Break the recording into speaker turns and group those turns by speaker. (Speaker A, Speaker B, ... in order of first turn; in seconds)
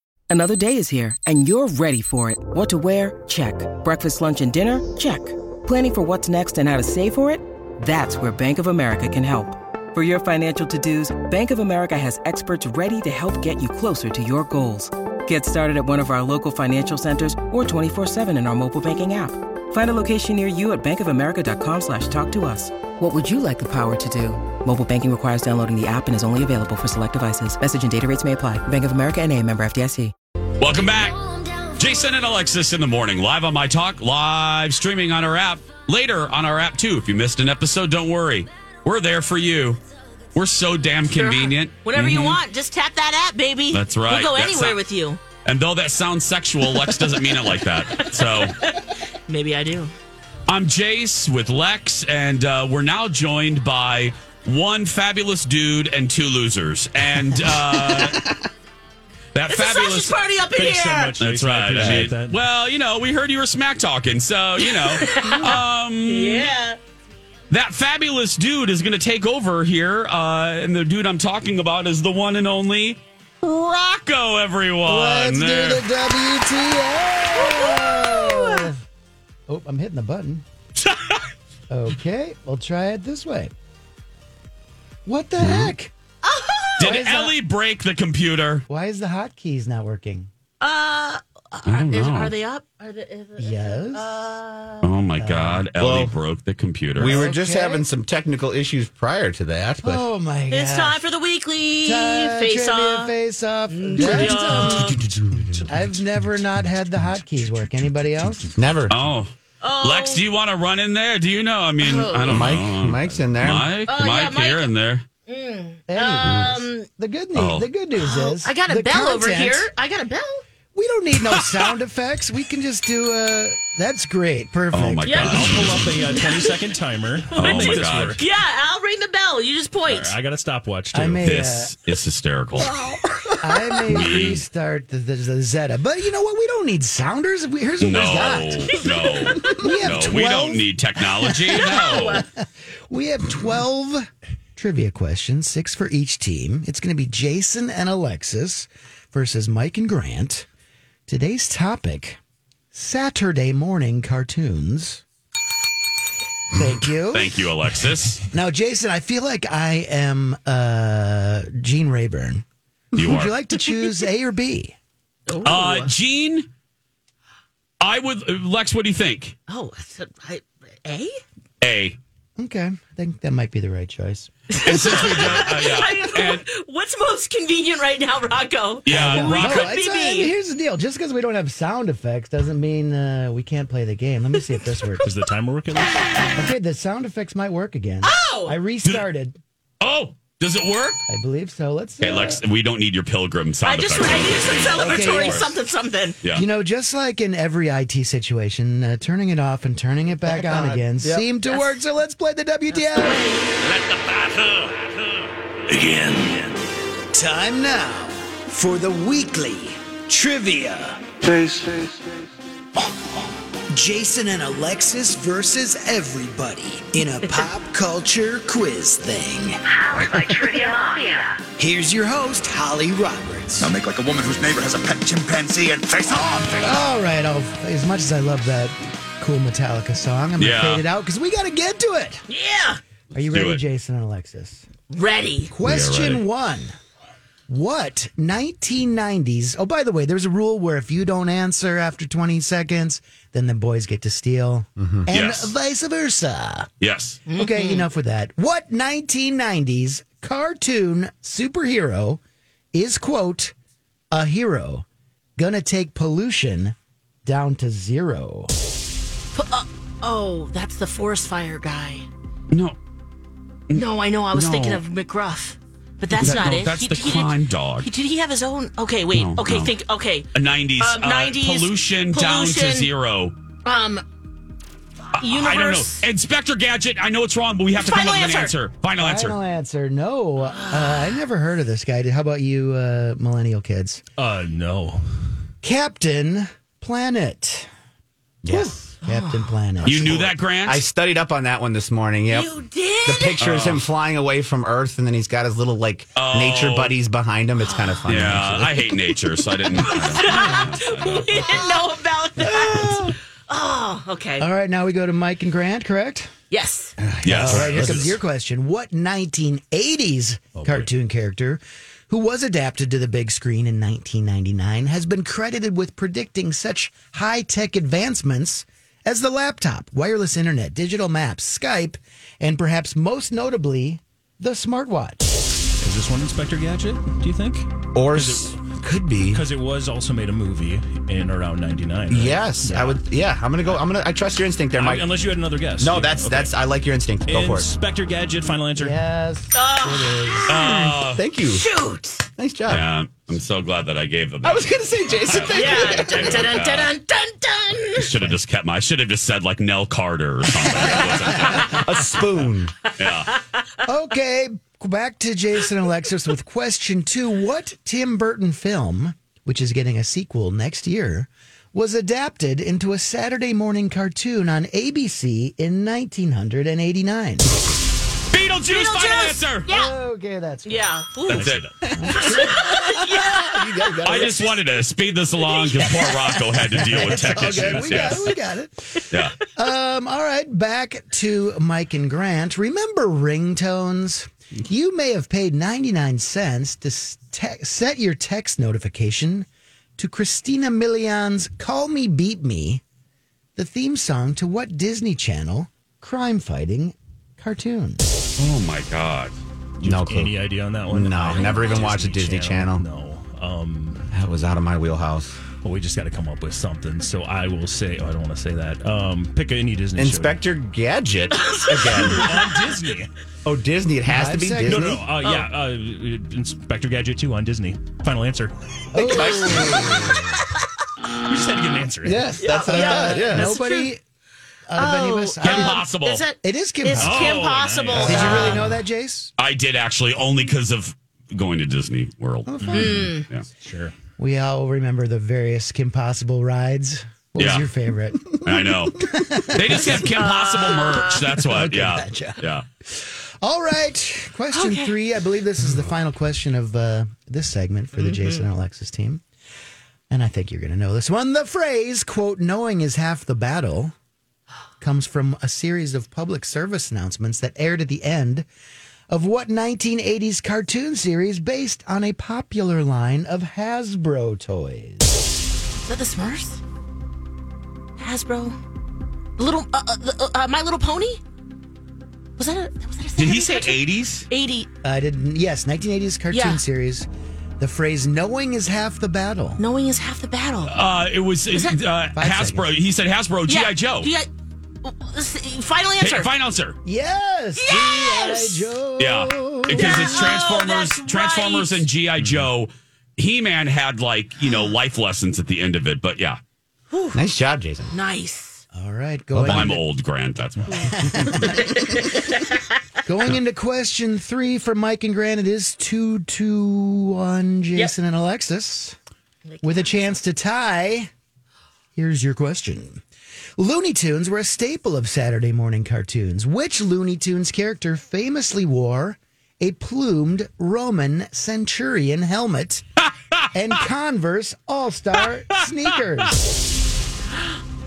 Speaker A: 0.3-30.1
Speaker B: 30.6-39.8, 40.3-42.4, 43.7-44.8, 45.4-48.5, 50.5-58.2, 59.3-60.2, 61.2-66.5, 67.5-75.9, 85.4-85.7, 86.8-88.6, 91.7-92.3, 94.8-97.3, 108.9-115.0, 117.3-117.7, 124.7-125.8, 127.4-128.2, 131.2-132.7, 133.8-134.4, 137.8-142.2, 157.1-158.2, 163.0-163.3, 165.4-166.5, 167.8-169.4, 171.6-172.0, 174.6-176.4, 178.8-179.7, 189.8-191.0, 192.0-195.6, 230.4-230.8, 233.3-233.6, 235.6-236.2, 245.1-245.6, 246.8-247.2, 262.5-262.8, 263.7-264.8, 266.1-267.9, 269.1-269.7, 270.3-273.4, 275.1-279.4, 289.8-290.9, 293.4-293.9, 296.1-297.0, 298.1-301.7, 302.4-303.0, 307.2-308.2, 340.5-341.2, 342.7-346.9, 347.9-351.9, 352.9-353.3, 368.3-369.7, 371.3-371.7, 374.0-378.3, 379.1-379.4, 398.4-399.4, 425.4-426.2, 429.4-432.6, 433.2-433.4, 437.4-437.7, 438.4-442.6, 473.2-474.3, 480.6-484.1, 486.0-486.8, 489.0-496.4, 499.4-500.9
Speaker C: 41.1-45.2, 46.7-49.9, 59.5-61.1, 64.6-66.8, 77.3-78.7, 86.2-87.0, 90.6-94.9, 100.5-103.1, 103.7-105.0, 109.6-110.2, 111.8-112.5, 113.9-114.7, 115.3-116.9, 118.0-120.4, 125.0-126.5, 127.3-130.2, 132.6-133.8, 138.6-139.7, 141.5-142.2, 165.3-165.9, 169.5-171.1, 174.5-180.3, 188.0-188.6, 193.7-196.2, 201.5-201.8, 202.7-203.5, 232.3-232.8, 234.9-235.5, 247.3-247.9, 259.3-262.1, 263.7-272.9, 273.6-274.0, 275.2-276.1, 277.8-278.6, 280.6-281.1, 289.0-289.5, 292.3-293.4, 297.6-298.1, 299.6-304.5, 306.5-306.9, 339.5-340.5, 341.5-342.3, 345.5-348.1, 368.7-369.9, 370.6-371.5, 372.1-373.7, 375.3-376.5, 401.3-401.9, 411.3-412.6, 415.2-415.5, 422.4-423.9, 424.8-428.7, 432.7-433.2, 440.2-441.3, 444.5-444.9, 448.0-448.4, 465.7-466.6, 468.0-468.6, 469.4-471.2, 472.4-474.7, 476.3-476.6, 479.6-480.8, 481.5-481.8, 483.5-484.3, 484.8-486.3, 487.6-488.7, 489.7-491.9, 496.9-497.2, 497.9-498.6, 500.7-502.6, 509.4-509.9
Speaker D: 57.7-58.4, 61.8-62.1, 95.8-96.2, 97.0-100.0, 105.0-105.6, 108.5-109.0, 112.3-113.7, 200.3-201.2, 244.8-245.1, 288.4-288.8, 289.9-298.8, 307.0-308.2, 327.9-329.4, 332.1-335.1, 335.8-337.7, 340.5-341.7, 342.4-342.9, 344.4-346.5, 351.6-352.7, 371.3-374.6, 377.2-378.1, 399.8-402.9, 404.1-405.4, 410.0-412.4, 413.4-415.1, 418.9-420.2, 422.0-423.6, 432.5-433.0, 492.2-492.5, 497.1-497.9, 499.3-499.8
Speaker E: 60.5-62.4, 125.2-128.2, 129.8-131.2, 185.0-186.0, 284.2-285.0, 310.6-310.9, 325.8-328.6, 329.2-333.0, 334.7-336.7, 337.2-339.0, 399.8-404.1, 405.6-410.4, 411.9-413.1, 414.6-419.1, 421.2-422.3, 427.0-428.6, 432.6-433.0, 433.6-433.9
Speaker F: 74.8-78.8, 79.5-80.4, 81.7-83.5, 85.0-85.9, 86.8-87.3, 88.7-90.3, 93.4-94.2, 95.2-95.7, 97.0-97.9, 99.8-101.0, 101.8-105.0, 105.7-108.6, 115.9-119.7, 120.7-125.5, 130.9-131.8, 133.4-138.8, 139.4-140.7, 141.4-150.5, 151.1-152.2, 152.7-155.0, 156.5-157.4, 158.3-164.8, 172.4-175.3, 178.9-185.1, 186.3-189.4, 191.1-192.4, 194.7-195.5, 196.3-203.2, 207.1-211.0, 213.7-220.7, 221.6-223.8, 226.6-232.2, 233.1-234.7, 235.5-236.8, 237.5-246.7, 247.3-252.2, 252.7-253.5, 254.1-254.8, 255.4-258.5, 279.0-284.0, 285.6-287.7, 288.5-290.2, 304.4-306.3, 307.3-325.3, 338.7-340.6, 350.6-351.7, 353.9-367.5, 369.7-370.9, 371.9-373.4, 376.5-389.5, 390.0-392.8, 393.6-398.0, 414.1-415.0, 418.9-420.3, 422.6-424.0, 424.7-425.9, 426.4-427.3, 427.9-429.3, 434.2-440.2, 440.9-449.2, 450.1-453.9, 454.8-458.5, 459.1-465.1, 474.8-477.1, 477.6-479.6, 482.1-482.7, 486.8-490.3, 498.7-499.8, 500.8-501.7, 503.1-509.0, 509.6-511.1, 511.9-513.0, 513.6-522.8, 523.5-526.4
Speaker G: 204.0-204.6, 205.8-206.3, 223.7-226.6